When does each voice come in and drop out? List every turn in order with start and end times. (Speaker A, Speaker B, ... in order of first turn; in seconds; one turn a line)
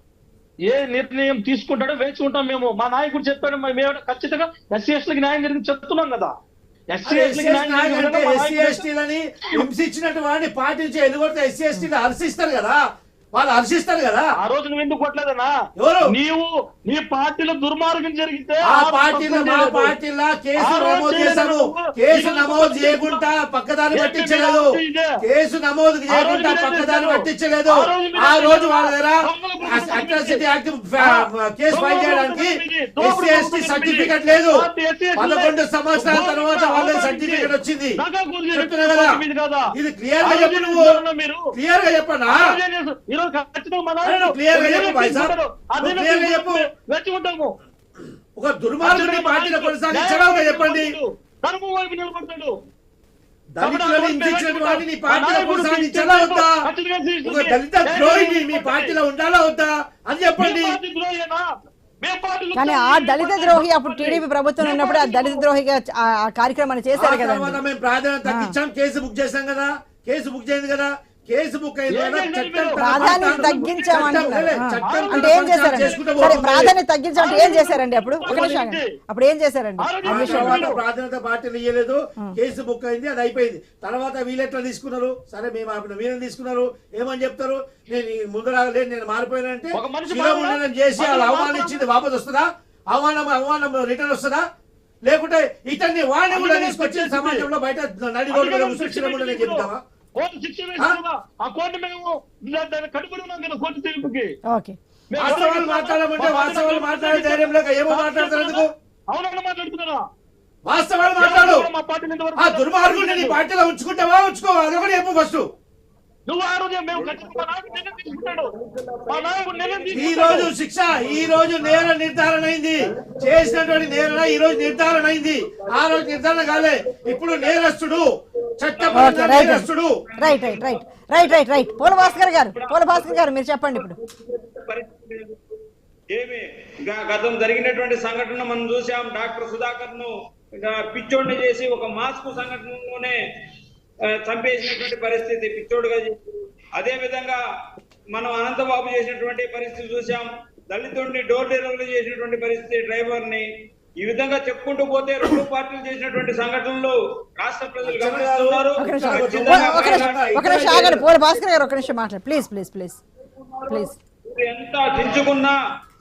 Speaker A: 0.7-6.3
Speaker A: 6.9-8.8
Speaker B: 7.0-12.8
Speaker B: 13.3-14.3
Speaker A: 14.4-15.5
Speaker B: 15.8-16.1
Speaker A: 16.1-19.9
Speaker B: 18.7-24.7
Speaker A: 20.6-23.2
Speaker A: 23.9-25.1
Speaker B: 25.2-34.6
Speaker A: 26.1-30.4
Speaker A: 31.7-39.6
Speaker B: 35.2-38.0
Speaker B: 38.5-39.2
Speaker B: 39.7-41.0
Speaker A: 40.2-41.4
Speaker B: 41.5-42.5
Speaker A: 42.3-47.5
Speaker B: 44.0-46.6
Speaker B: 48.4-50.9
Speaker A: 48.8-52.5
Speaker B: 53.5-56.6
Speaker A: 53.6-59.0
Speaker B: 57.2-60.8
Speaker A: 60.4-61.4
Speaker A: 62.0-65.4
Speaker C: 62.5-67.6
Speaker B: 67.0-76.7
Speaker C: 68.2-68.5
Speaker A: 71.9-76.4
Speaker C: 72.8-80.6
Speaker A: 77.2-78.9
Speaker A: 79.8-80.8
Speaker B: 80.0-94.4
Speaker A: 89.7-91.8
Speaker B: 95.0-99.8
Speaker A: 96.3-97.5
Speaker A: 98.3-104.3
Speaker C: 104.5-104.8
Speaker A: 105.1-110.0
Speaker B: 105.2-108.7
Speaker B: 110.7-111.7
Speaker A: 111.2-113.4
Speaker B: 112.4-115.5
Speaker A: 116.3-118.5
Speaker D: 116.9-120.3
Speaker A: 119.1-120.5
Speaker B: 119.9-128.1
Speaker D: 120.9-121.9
Speaker D: 122.9-127.7
Speaker B: 128.6-129.9
Speaker D: 128.6-135.5
Speaker C: 128.9-129.7
Speaker C: 130.2-133.9
Speaker D: 136.1-143.2
Speaker D: 144.1-147.4
Speaker D: 148.1-153.5
Speaker D: 154.0-160.9
Speaker B: 157.8-161.1
Speaker C: 158.8-163.0
Speaker D: 163.5-165.6
Speaker C: 163.7-163.9